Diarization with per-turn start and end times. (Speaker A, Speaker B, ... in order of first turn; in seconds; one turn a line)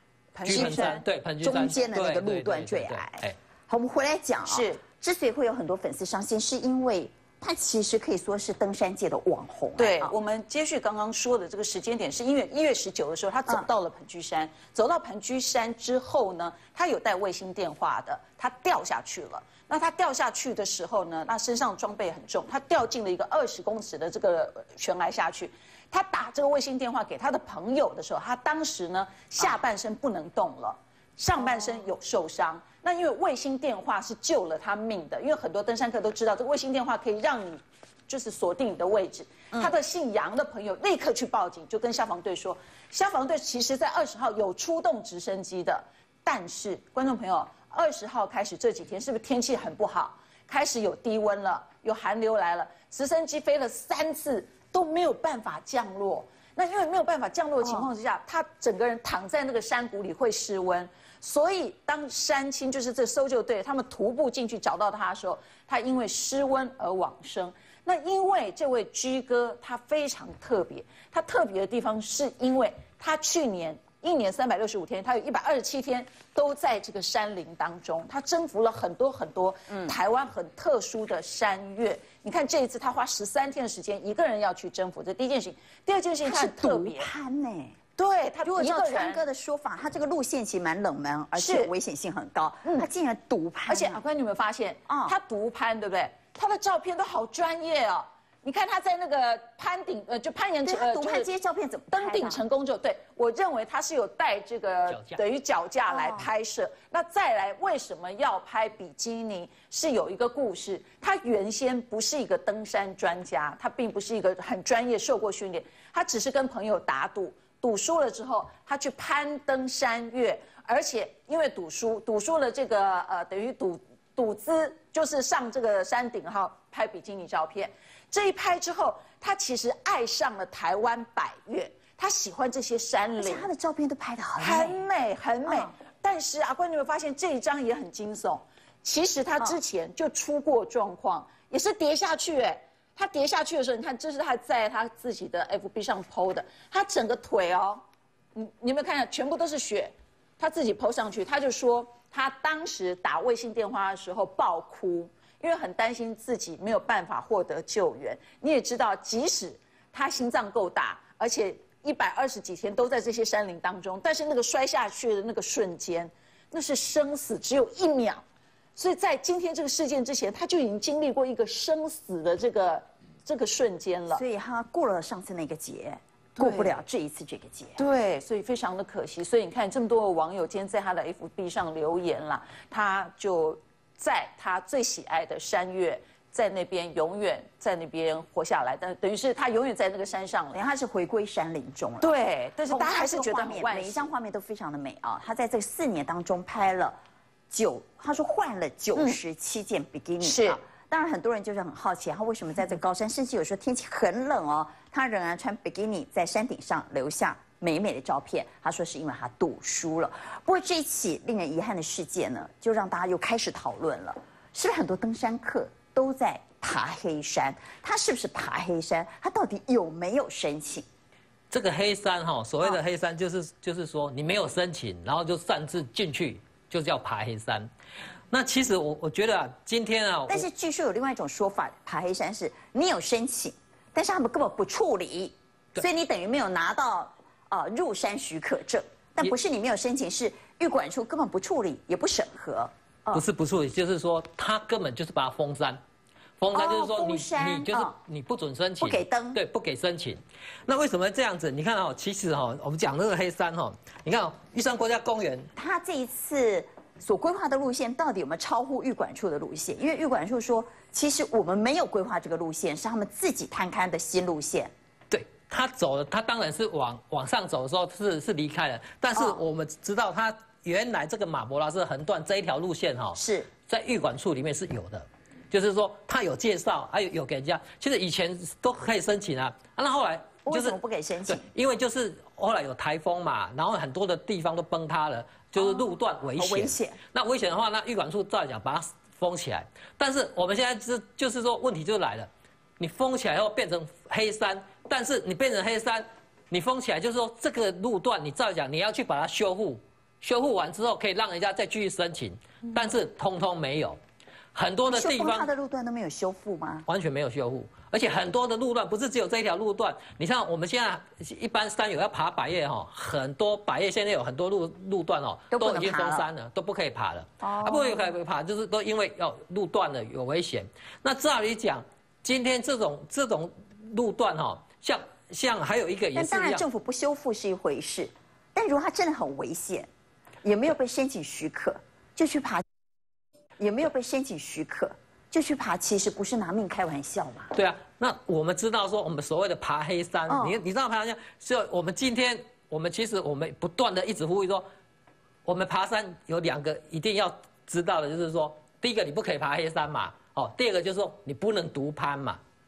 Speaker A: 0.3-1.0
Speaker B: 0.4-10.1
Speaker C: 0.4-3.4
Speaker A: 4.5-4.8
Speaker A: 9.8-87.1
Speaker B: 31.4-31.8
Speaker B: 57.6-57.9
Speaker B: 79.7-79.9
Speaker B: 86.2-87.8
Speaker A: 88.0-89.2
Speaker B: 88.4-94.0
Speaker A: 91.3-91.7
Speaker A: 93.7-101.3
Speaker B: 94.9-95.1
Speaker B: 100.6-102.4
Speaker A: 101.9-133.5
Speaker C: 104.9-105.2
Speaker B: 105.9-106.3
Speaker B: 133.2-134.8
Speaker A: 134.4-147.8
Speaker B: 135.4-135.7
Speaker A: 148.3-168.2
Speaker A: 168.8-174.2
Speaker B: 174.1-177.8
Speaker A: 176.4-176.8
Speaker A: 177.8-190.6
Speaker B: 190.5-192.1
Speaker A: 192.0-194.1
Speaker B: 192.7-197.0
Speaker B: 197.5-220.8
Speaker A: 200.2-200.6
Speaker C: 221.5-227.7
Speaker C: 228.3-230.5
Speaker B: 230.3-243.2
Speaker C: 243.1-245.8
Speaker C: 246.4-255.5
Speaker B: 246.5-247.9
Speaker B: 248.8-249.4
Speaker B: 255.6-264.7
Speaker C: 265.1-304.0
Speaker B: 269.1-269.4
Speaker B: 273.1-273.5
Speaker B: 280.4-281.4
Speaker B: 285.6-287.0
Speaker C: 304.5-305.5
Speaker B: 304.9-306.9
Speaker C: 306.9-326.6
Speaker B: 315.5-316.3
Speaker B: 317.4-318.1
Speaker B: 326.1-329.9
Speaker B: 330.4-332.6
Speaker B: 333.6-337.5
Speaker C: 337.5-344.7
Speaker B: 340.3-340.6
Speaker C: 345.4-352.4